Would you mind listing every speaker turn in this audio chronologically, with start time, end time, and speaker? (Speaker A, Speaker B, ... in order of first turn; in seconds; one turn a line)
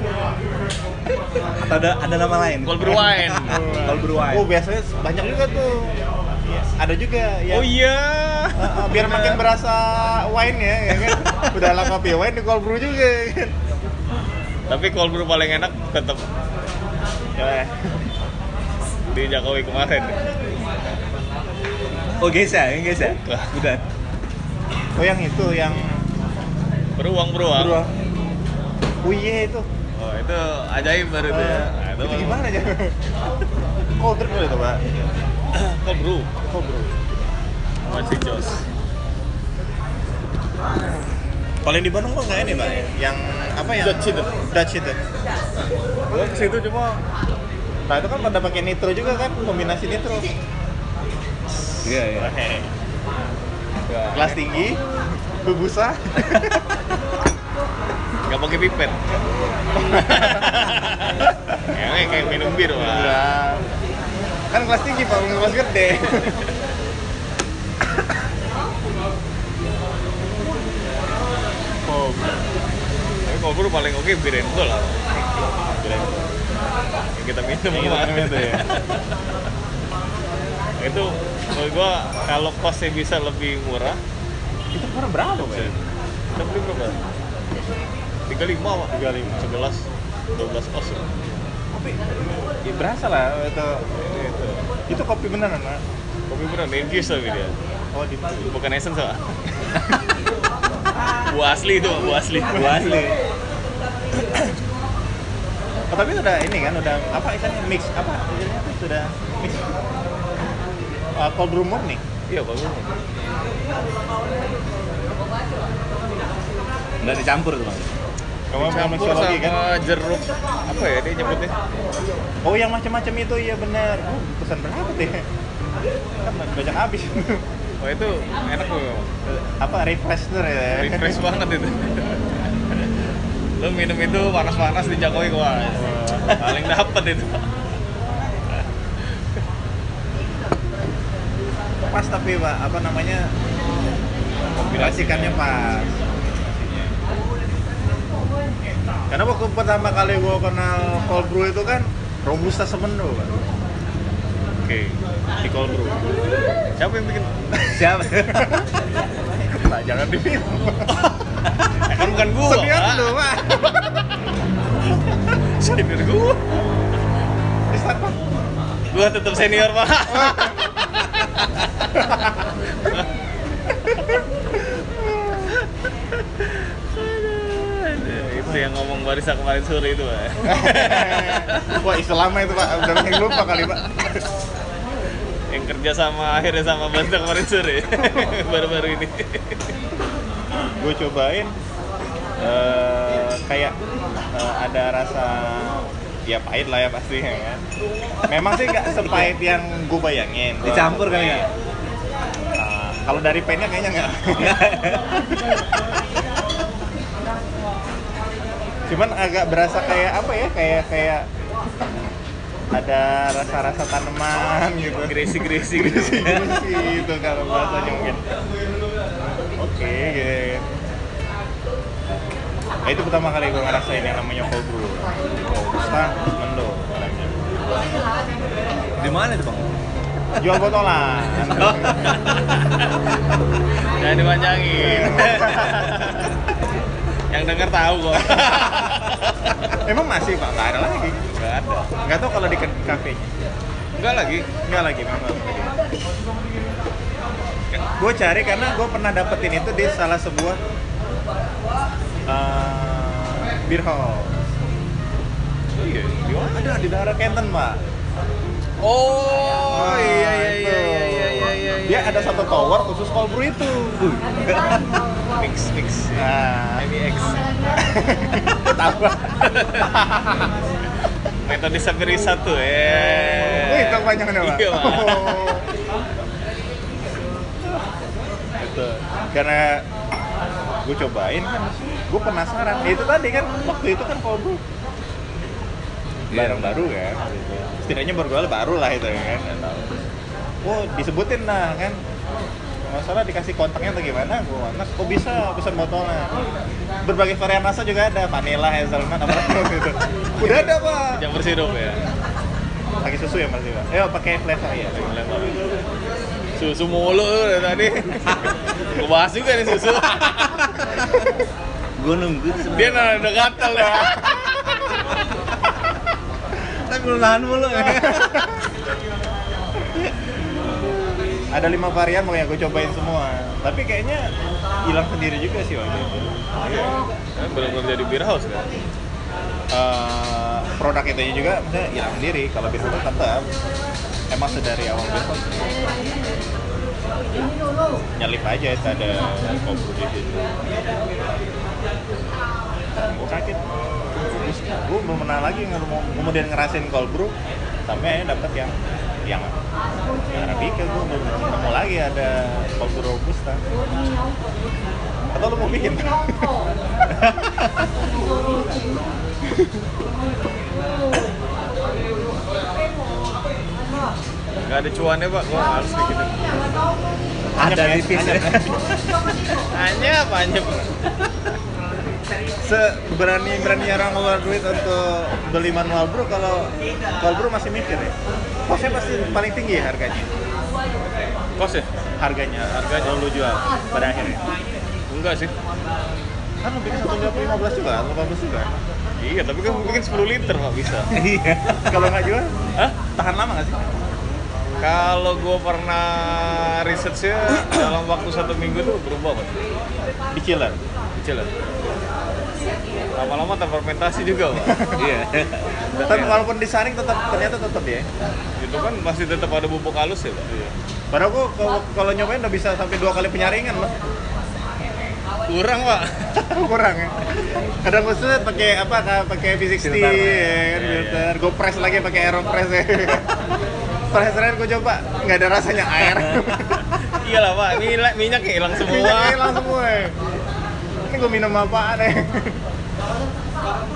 Speaker A: 1.6-4.5
Speaker B: 2.6-3.8
Speaker C: 3.5-7.7
Speaker B: 7.5-9.2
Speaker C: 8.6-13.5
Speaker A: 11.0-11.5
Speaker B: 14.7-16.3
Speaker C: 17.4-18.1
Speaker B: 19.1-20.2
Speaker C: 22.0-22.4
Speaker A: 22.2-23.8
Speaker B: 23.0-23.5
Speaker C: 25.0-26.0
Speaker B: 27.0-27.8
Speaker C: 27.5-27.9
Speaker C: 29.0-29.7
Speaker B: 29.9-32.4
Speaker C: 31.3-33.0
Speaker C: 34.0-34.8
Speaker B: 35.5-36.3
Speaker C: 36.5-36.9
Speaker B: 37.9-38.6
Speaker C: 41.6-45.0
Speaker B: 43.8-44.3
Speaker B: 46.1-47.0
Speaker C: 47.9-50.2
Speaker C: 51.8-52.7
Speaker A: 51.8-52.4
Speaker B: 53.9-54.6
Speaker C: 54.1-56.7
Speaker B: 58.2-59.0
Speaker C: 59.8-60.6
Speaker B: 59.9-63.2
Speaker C: 62.7-63.6
Speaker C: 64.5-66.4
Speaker C: 71.8-72.3
Speaker B: 73.2-75.0
Speaker C: 75.8-76.2
Speaker B: 77.2-79.0
Speaker C: 77.7-78.7
Speaker B: 80.8-84.0
Speaker C: 84.7-85.7
Speaker B: 85.5-85.7
Speaker B: 86.3-87.0
Speaker B: 88.3-91.2
Speaker C: 88.9-89.5
Speaker C: 91.7-92.0
Speaker C: 92.6-93.8
Speaker B: 94.1-94.6
Speaker C: 94.9-95.8
Speaker B: 96.3-97.5
Speaker C: 97.9-98.5
Speaker B: 98.4-99.2
Speaker B: 101.3-102.8
Speaker A: 102.5-103.2
Speaker C: 102.5-102.9
Speaker C: 105.9-109.6
Speaker C: 111.2-112.0
Speaker B: 112.3-113.0
Speaker A: 117.0-117.9
Speaker C: 118.5-119.6
Speaker B: 118.5-121.5
Speaker C: 122.4-125.2
Speaker C: 126.2-127.4
Speaker B: 127.8-129.1
Speaker C: 129.2-131.2
Speaker B: 130.8-132.9
Speaker B: 133.6-137.5
Speaker C: 135.7-136.6
Speaker B: 138.6-139.1
Speaker C: 141.9-143.3
Speaker B: 144.5-145.4
Speaker C: 144.7-146.9
Speaker C: 149.1-153.3
Speaker B: 154.6-155.0
Speaker C: 155.4-156.1
Speaker B: 156.7-157.5
Speaker A: 157.7-158.6
Speaker C: 158.2-158.6
Speaker C: 159.5-161.0
Speaker B: 161.8-163.1
Speaker C: 161.9-164.0
Speaker B: 165.6-166.6
Speaker C: 167.7-168.2
Speaker B: 168.9-171.9
Speaker C: 170.1-170.8
Speaker C: 171.9-172.5
Speaker C: 173.8-175.5
Speaker B: 176.4-181.8
Speaker C: 178.3-178.7
Speaker C: 180.4-184.2
Speaker B: 185.5-189.7
Speaker C: 190.5-191.5
Speaker C: 192.4-193.8
Speaker C: 194.3-197.6
Speaker C: 198.3-201.5
Speaker A: 200.6-201.5
Speaker C: 202.6-204.7
Speaker A: 204.3-205.2
Speaker C: 205.3-205.6
Speaker C: 208.9-211.3
Speaker C: 212.7-218.2
Speaker B: 215.0-216.4
Speaker A: 215.9-216.5
Speaker C: 219.6-220.6
Speaker C: 222.8-227.4
Speaker A: 229.0-229.8
Speaker C: 230.4-232.1
Speaker A: 231.6-232.0
Speaker B: 233.9-236.3
Speaker C: 234.7-236.3
Speaker B: 237.3-239.7
Speaker C: 238.2-239.0
Speaker C: 239.8-241.2
Speaker B: 241.3-241.9
Speaker C: 242.0-243.3
Speaker B: 244.0-244.5
Speaker C: 244.6-245.8
Speaker C: 247.7-250.6
Speaker C: 252.3-254.5
Speaker B: 255.8-256.5
Speaker C: 256.3-257.8
Speaker B: 258.8-262.4
Speaker C: 259.7-264.2
Speaker B: 265.4-267.6
Speaker C: 266.1-266.8
Speaker C: 267.8-269.2
Speaker B: 269.3-270.3
Speaker B: 271.4-275.6
Speaker C: 273.6-275.6
Speaker C: 278.6-279.8
Speaker C: 280.8-284.6
Speaker A: 286.3-286.8
Speaker C: 286.3-289.9
Speaker C: 290.6-292.0
Speaker C: 292.9-296.4
Speaker C: 297.0-301.2
Speaker B: 300.4-302.0
Speaker C: 302.9-305.1
Speaker B: 304.9-305.6
Speaker B: 306.6-310.8
Speaker A: 312.0-313.3
Speaker B: 312.7-314.5
Speaker C: 313.8-314.9
Speaker A: 316.8-318.4
Speaker C: 317.8-318.6
Speaker C: 321.5-324.3
Speaker C: 324.9-326.3
Speaker B: 326.6-328.7
Speaker C: 329.7-333.4
Speaker C: 334.3-336.1
Speaker C: 338.1-340.6
Speaker C: 342.9-343.6
Speaker C: 344.1-347.3
Speaker C: 347.9-348.7
Speaker C: 349.3-349.5
Speaker C: 350.3-353.6
Speaker C: 355.3-356.5
Speaker C: 357.1-357.5
Speaker B: 364.6-366.5
Speaker C: 367.6-369.5
Speaker A: 367.6-368.7
Speaker B: 369.7-370.9
Speaker C: 372.6-378.1
Speaker C: 378.7-380.3
Speaker B: 381.6-381.9
Speaker C: 382.2-384.4
Speaker B: 382.7-383.1
Speaker B: 385.1-385.5
Speaker C: 386.6-388.7
Speaker B: 389.2-391.1
Speaker A: 391.1-391.9
Speaker C: 391.9-392.5
Speaker C: 393.1-393.8
Speaker B: 394.8-399.6
Speaker C: 400.3-400.8
Speaker B: 401.2-401.5
Speaker B: 403.1-404.9
Speaker A: 404.9-406.3
Speaker B: 405.9-406.4
Speaker C: 406.1-408.1
Speaker B: 408.6-410.7
Speaker C: 411.1-413.9
Speaker B: 415.5-416.4
Speaker C: 416.4-423.3
Speaker A: 419.8-420.6
Speaker B: 420.7-421.3
Speaker C: 424.1-426.9
Speaker B: 427.1-429.4
Speaker C: 428.8-430.1
Speaker C: 431.1-432.6